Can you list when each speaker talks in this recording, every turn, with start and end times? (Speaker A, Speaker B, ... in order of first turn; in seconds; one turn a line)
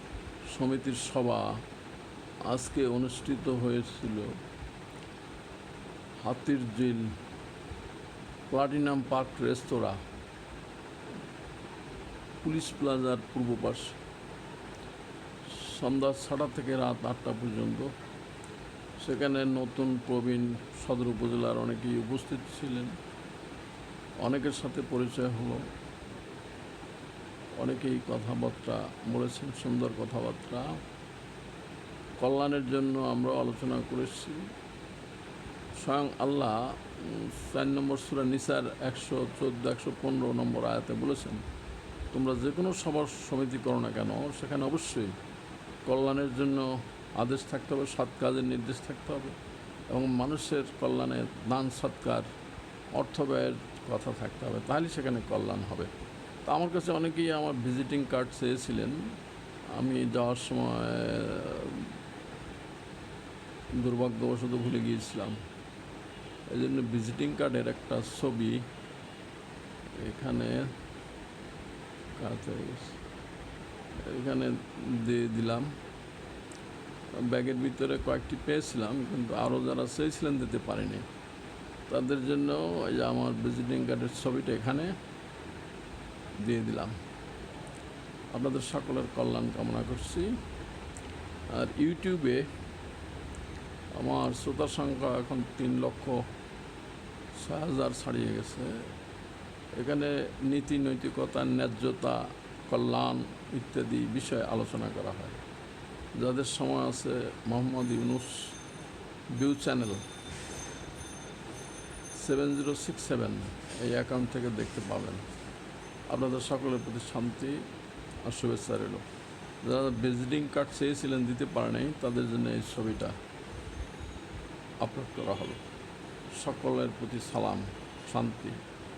Speaker A: 0.5-1.6
Speaker A: 2.5-4.3
Speaker A: 6.2-7.1
Speaker A: 8.5-10.0
Speaker A: 12.4-14.0
Speaker A: 15.5-17.9
Speaker A: 19.0-23.0
Speaker A: 24.2-25.6
Speaker A: 27.6-30.8
Speaker A: 32.2-34.5
Speaker A: 35.7-41.4
Speaker A: 42.1-45.2
Speaker A: 45.8-49.4
Speaker A: 49.9-52.3
Speaker A: 52.9-55.9
Speaker A: 56.4-59.1
Speaker A: 59.7-61.9
Speaker A: 63.8-65.4
Speaker A: 66.5-68.7
Speaker A: 70.0-70.7
Speaker A: 72.2-73.0
Speaker A: 74.0-75.8
Speaker A: 77.1-81.1
Speaker A: 81.9-85.0
Speaker A: 86.4-87.0
Speaker A: 88.3-90.3
Speaker A: 91.5-92.5
Speaker A: 93.9-96.2
Speaker A: 97.3-98.9
Speaker A: 99.7-105.4
Speaker A: 106.2-108.5
Speaker A: 109.3-110.0
Speaker A: 112.1-115.2
Speaker A: 116.1-117.7
Speaker A: 118.2-119.0
Speaker A: 119.6-123.2
Speaker A: 124.8-125.6
Speaker A: 126.3-128.6